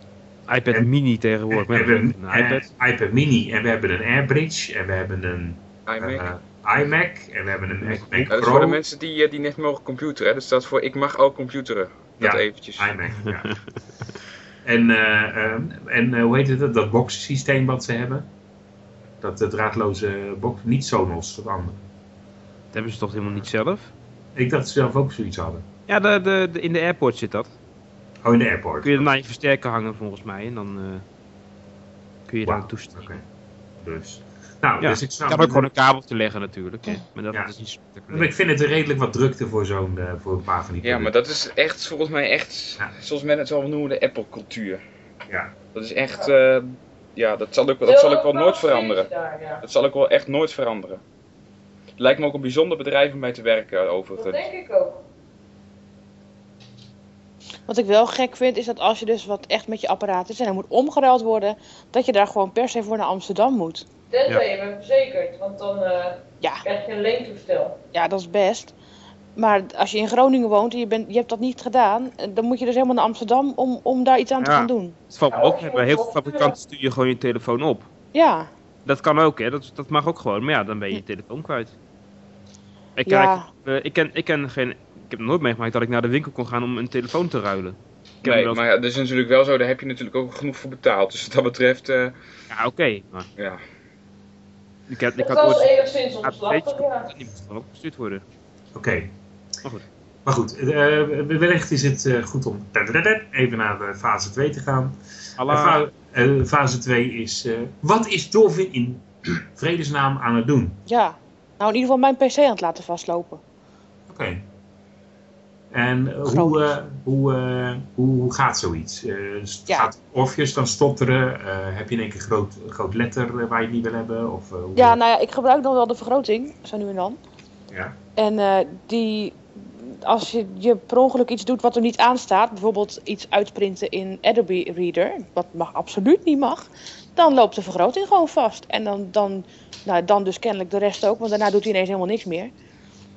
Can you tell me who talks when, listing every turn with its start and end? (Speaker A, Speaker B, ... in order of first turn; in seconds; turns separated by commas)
Speaker A: 0.5-2.7, Speaker B: 1.5-8.8, Speaker C: 5.8-6.3, Speaker A: 7.8-8.3, Speaker C: 8.3-12.9, Speaker B: 12.2-13.6, Speaker A: 13.2-13.5, Speaker B: 14.6-18.3, Speaker B: 19.2-21.8, Speaker A: 22.7-23.9, Speaker B: 24.3-25.6, Speaker A: 25.9-27.5, Speaker B: 28.2-29.1, Speaker A: 28.8-31.0, Speaker A: 32.3-33.1, Speaker B: 32.4-33.2, Speaker B: 33.8-35.7, Speaker A: 34.8-38.3, Speaker B: 38.1-41.1, Speaker C: 40.8-44.8, Speaker B: 45.3-45.5, Speaker C: 45.7-49.1, Speaker D: 47.8-49.6, Speaker C: 49.6-51.0, Speaker C: 52.0-54.5, Speaker D: 54.1-55.0, Speaker E: 57.7-63.8, Speaker D: 64.1-67.8, Speaker E: 67.9-68.7, Speaker E: 69.3-75.0, Speaker A: 74.4-77.9, Speaker D: 75.3-76.6, Speaker E: 78.1-78.5, Speaker A: 78.8-81.7, Speaker A: 83.0-88.6, Speaker E: 83.0-83.5, Speaker C: 88.2-92.2, Speaker A: 92.5-93.3, Speaker C: 93.4-93.6, Speaker A: 94.9-95.7, Speaker D: 95.2-97.1, Speaker A: 96.2-98.2, Speaker B: 98.7-99.1, Speaker B: 100.2-110.8, Speaker A: 105.4-105.8, Speaker E: 110.8-113.4, Speaker B: 114.1-114.4, Speaker B: 115.7-125.0, Speaker E: 116.2-116.7, Speaker E: 124.7-127.2, Speaker E: 128.2-142.5